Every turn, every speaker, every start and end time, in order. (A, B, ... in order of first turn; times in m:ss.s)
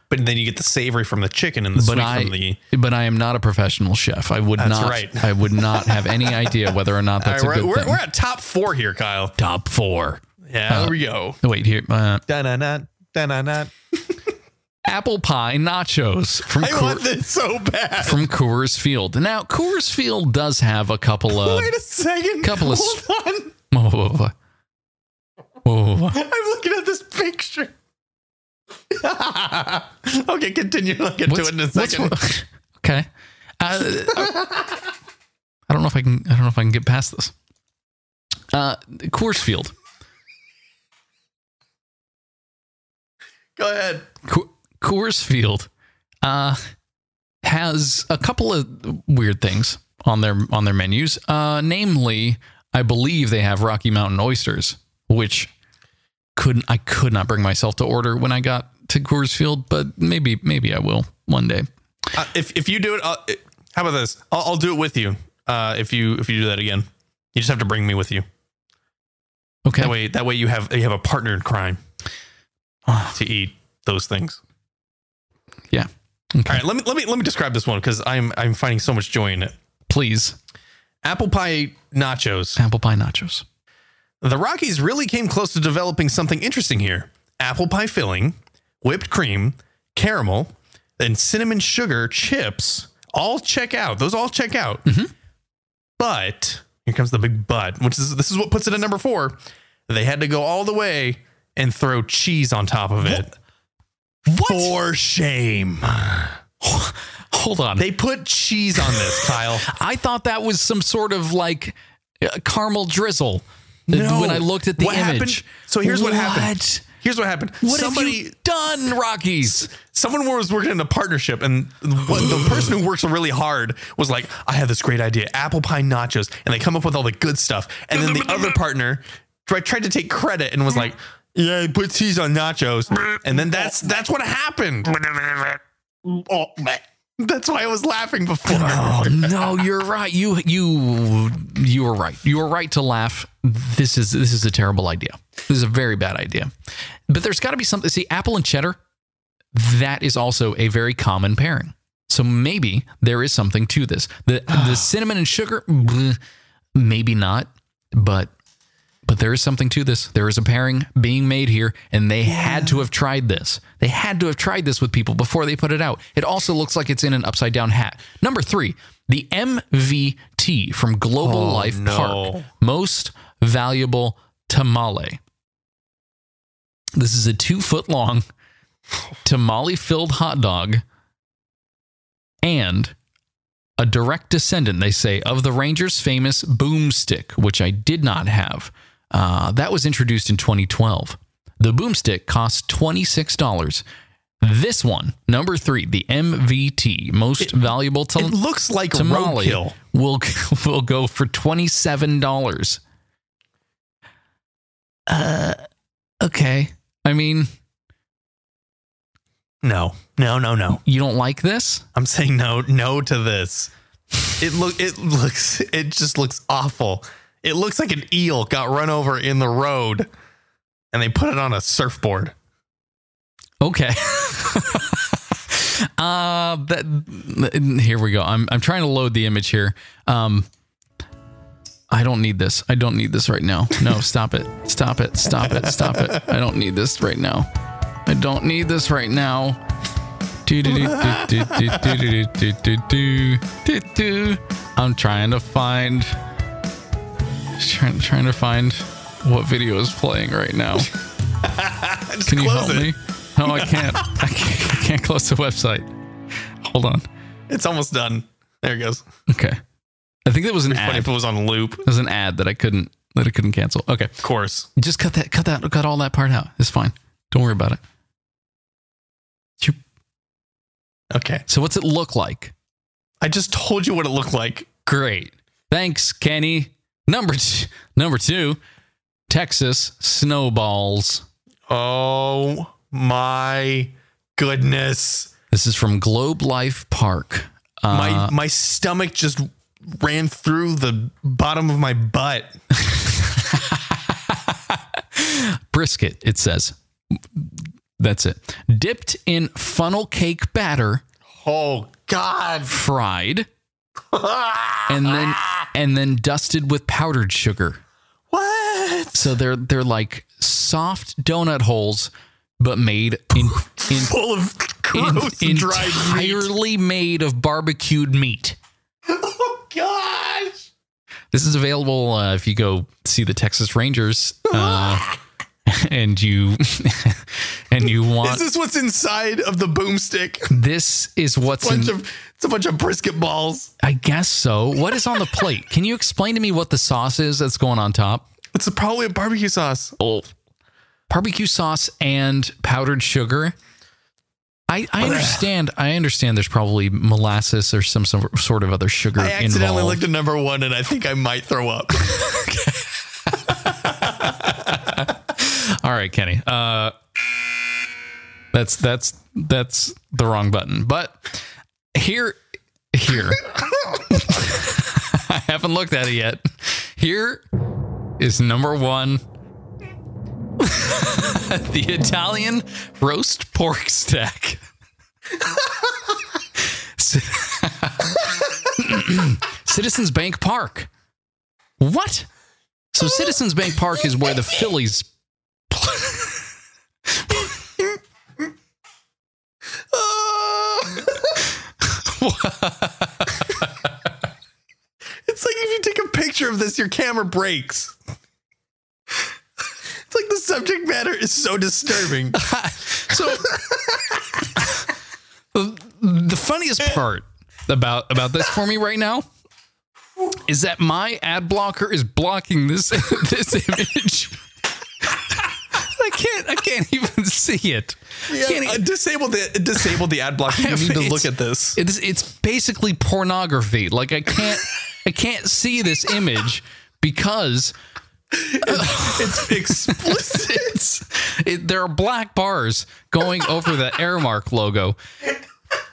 0:00.1-0:02.6 A
0:01.8-0:08.0 B
0:04.6-0:09.3 A
0:09.4-0:12.2 B
0:10.5-0:11.4 A
0:12.3-0:13.7 A
0:14.9-0:17.1 B
0:16.5-0:18.3 A
0:18.0-0:21.7 B
0:21.3-0:23.5 A
0:22.4-0:23.1 B
0:23.7-0:24.3 B
0:25.6-0:26.2 B
0:26.1-0:27.7 A
0:28.9-0:32.2 A
0:31.3-0:33.1 B
0:33.6-0:34.4 B
0:35.7-0:37.3 B
0:38.5-0:39.7 B
0:43.6-0:44.1 A
0:44.2-0:45.7 B
0:46.2-0:46.6 B
0:47.4-0:55.5 B
0:56.4-1:01.7 B
1:02.1-1:08.2 A
1:09.6-1:10.0 B
1:09.8-1:11.8 A
1:12.9-1:13.2 B
1:13.1-1:14.4 A
1:15.7-1:16.6 B
1:16.5-1:19.6 A
1:19.9-1:20.4 B
1:21.0-1:22.6 A
1:22.6-1:23.4 B
1:24.2-1:34.8 A
1:34.8-1:35.1 B
1:36.0-1:43.3 A
1:44.3-1:44.7 B
1:44.4-1:46.4 A
1:46.6-1:47.9 B
1:47.8-1:49.7 A
1:48.8-1:56.8 B
1:53.9-1:58.3 A
1:57.6-1:59.7 B
1:59.7-2:15.4 A
2:16.1-2:19.6 A
2:18.5-2:26.5 B
2:27.1-2:28.8 B
2:29.5-2:36.2 B
2:34.5-2:34.8 A
2:36.7-2:38.3 B
2:39.0-2:55.2 B
2:42.3-2:42.8 A
2:51.2-2:52.5 A
2:56.9-2:58.2 B
2:59.2-3:00.8 B
3:02.4-3:02.9 B
3:03.8-3:13.8 B
3:14.4-3:18.4 B
3:18.2-3:19.7 A
3:18.9-3:22.8 B
3:25.1-3:25.6 B
3:26.2-3:27.5 B
3:29.6-3:30.8 A
3:30.8-3:31.8 B
3:31.9-3:33.7 A
3:34.4-3:40.1 A
3:40.9-3:42.3 A
3:43.6-3:50.5 B
3:51.9-3:57.5 B
3:55.4-3:56.2 A
3:58.0-3:59.6 B
4:00.4-4:06.1 B
4:00.7-4:02.0 A
4:07.6-4:10.9 B
4:11.4-4:14.0 A
4:12.3-4:15.9 B
4:16.6-4:17.0 B
4:17.5-4:19.0 A
4:19.3-4:19.6 B
4:20.2-4:21.1 B
4:20.7-4:21.8 A
4:21.8-4:24.1 B
4:24.2-4:24.7 A
4:24.8-4:27.8 B
4:31.1-4:31.4 A
4:31.5-4:32.5 B
4:33.2-4:34.7 A
4:34.8-4:38.6 B
4:39.3-4:41.2 B
4:41.7-4:45.3 A
4:45.5-4:48.3 B
4:47.9-4:52.6 A
4:52.8-5:01.0 B
5:01.4-5:02.7 A
5:02.7-5:03.5 B
5:04.1-5:05.4 A
5:04.9-5:07.8 B
5:08.3-5:09.3 A
5:09.1-5:14.1 B
5:13.5-5:16.5 A
5:14.9-5:18.6 B
5:19.1-5:20.7 A
5:21.3-5:25.1 B
5:24.5-5:25.1 A
5:25.6-5:28.4 B
5:28.2-5:30.5 A
5:30.5-5:32.0 B
5:31.5-5:33.7 A
5:33.8-5:38.3 B
5:38.5-5:40.0 A
5:40.0-5:40.3 B
5:41.1-5:43.5 B
5:44.7-5:50.0 B
5:45.0-5:45.4 A
5:49.2-5:52.1 A
5:52.1-5:56.9 B
5:58.5-6:01.3 B
6:01.9-6:02.4 B
6:02.9-6:03.4 B
6:04.1-6:07.4 B
6:08.2-6:09.2 B
6:10.6-6:14.6 B
6:17.0-6:18.2 B
6:18.7-6:20.9 B
6:21.8-6:22.3 B
6:22.9-6:25.1 B
6:25.7-6:26.3 B
6:29.9-6:31.3 A
6:31.8-6:33.4 B
6:35.2-6:37.9 A
6:40.1-6:42.4 A
6:42.3-6:43.5 B
6:45.5-6:49.2 B
6:50.4-6:54.4 B
6:55.7-6:58.8 B
6:58.3-7:01.8 A
7:00.5-7:07.7 B
7:08.4-7:15.0 B
7:08.5-7:10.7 A